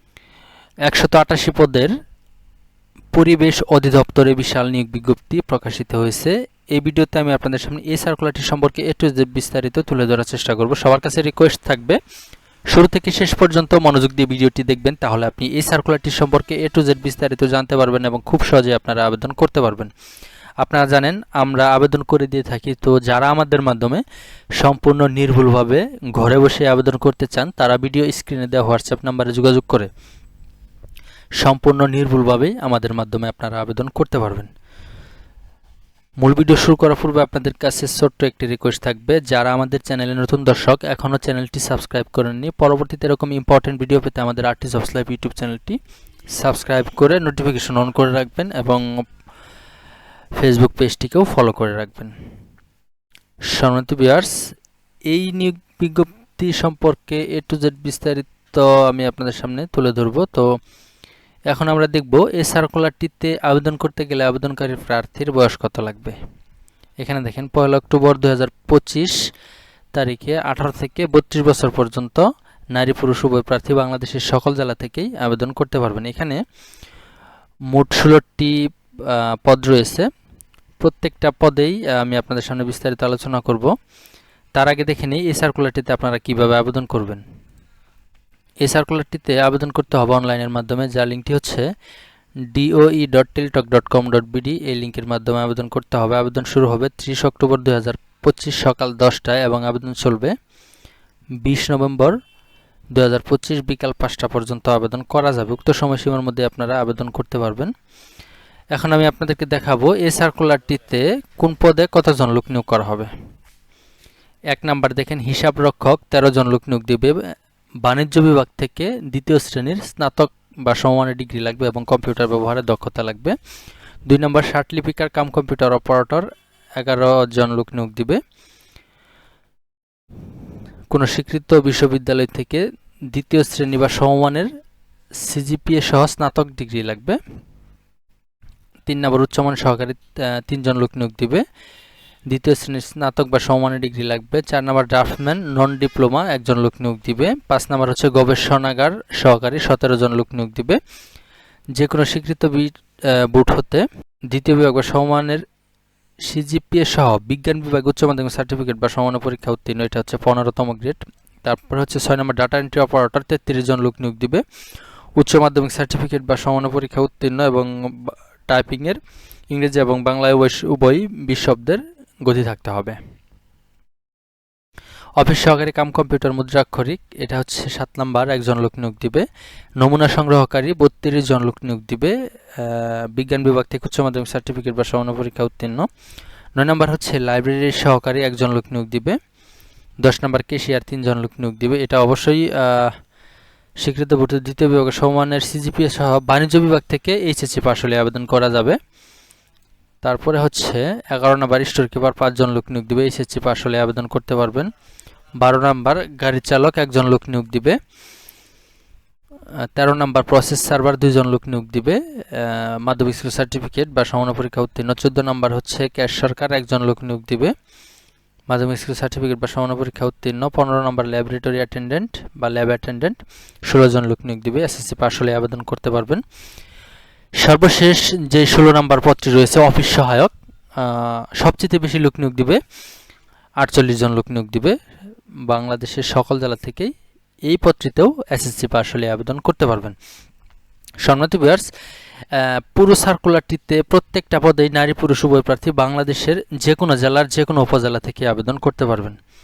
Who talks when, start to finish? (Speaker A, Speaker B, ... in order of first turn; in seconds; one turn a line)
Speaker A: 0.9-1.9
Speaker A: 3.1-12.0
Speaker A: 12.7-19.9
Speaker A: 20.6-24.0
Speaker A: 24.6-29.9
Speaker A: 31.4-34.5
Speaker A: 36.2-45.8
Speaker A: 46.3-48.8
Speaker A: 50.4-52.1
Speaker A: 53.5-54.3
Speaker A: 55.1-60.4
Speaker A: 61.5-66.2
Speaker A: 67.0-69.2
Speaker A: 69.9-76.4
Speaker A: 77.7-80.1
Speaker A: 80.8-83.7
Speaker A: 84.6-87.2
Speaker A: 88.6-91.7
Speaker A: 92.5-100.3
Speaker A: 101.4-102.2
Speaker A: 102.9-107.7
Speaker A: 108.7-113.1
Speaker A: 114.5-117.2
Speaker A: 117.8-123.3
Speaker A: 124.1-126.3
Speaker A: 126.8-128.2
Speaker A: 130.9-134.5
Speaker A: 135.2-137.2
Speaker A: 138.9-141.4
Speaker A: 142.3-150.8
Speaker A: 151.8-155.4
Speaker A: 156.2-164.4
Speaker A: 165.2-169.0
Speaker A: 169.5-173.0
Speaker A: 175.2-179.2
Speaker A: 179.8-185.9
Speaker A: 186.6-189.2
Speaker A: 190.0-192.9
Speaker A: 193.8-198.8
Speaker A: 200.0-204.7
Speaker A: 205.4-207.8
Speaker A: 209.8-217.5
Speaker A: 218.5-226.2
Speaker A: 227.4-232.6
Speaker A: 233.6-234.7
Speaker A: 235.5-236.9
Speaker A: 237.5-239.9
Speaker A: 241.0-241.7
Speaker A: 242.3-249.2